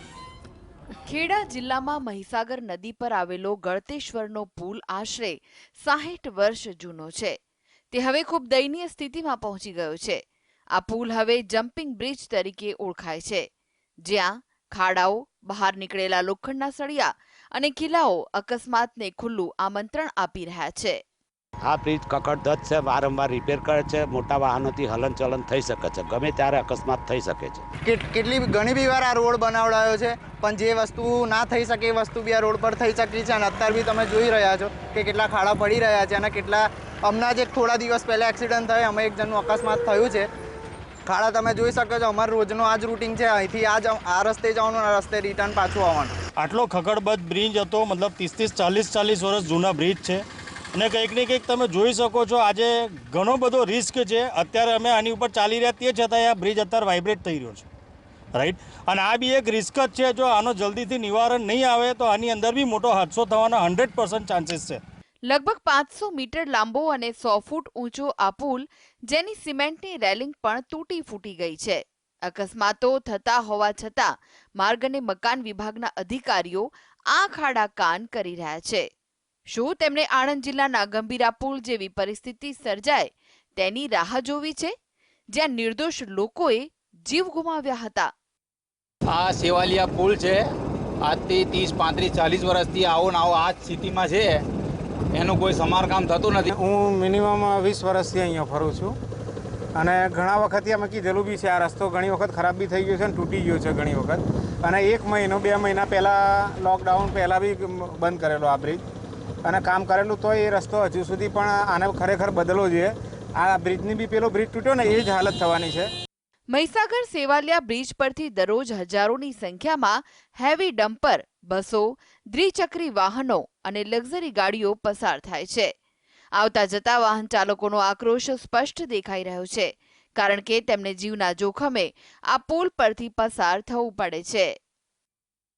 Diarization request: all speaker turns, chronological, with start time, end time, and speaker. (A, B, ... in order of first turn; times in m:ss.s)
0:01.0-0:07.4 A
0:07.9-0:10.2 A
0:10.8-0:13.5 A
0:14.1-0:21.0 A
0:21.7-0:27.7 B
0:27.8-0:40.3 C
0:41.0-0:46.1 C
0:46.4-0:50.2 D
0:50.8-0:57.7 D
0:58.4-1:04.8 D
1:05.3-1:18.9 A
1:19.5-1:24.7 A
1:25.3-1:28.1 A
1:29.1-1:30.4 E
1:31.0-1:34.3 E
1:35.2-1:36.4 E
1:36.5-1:39.0 F
1:39.8-1:48.8 F
1:49.4-1:55.9 F
1:56.5-2:05.7 A
2:06.4-2:14.5 A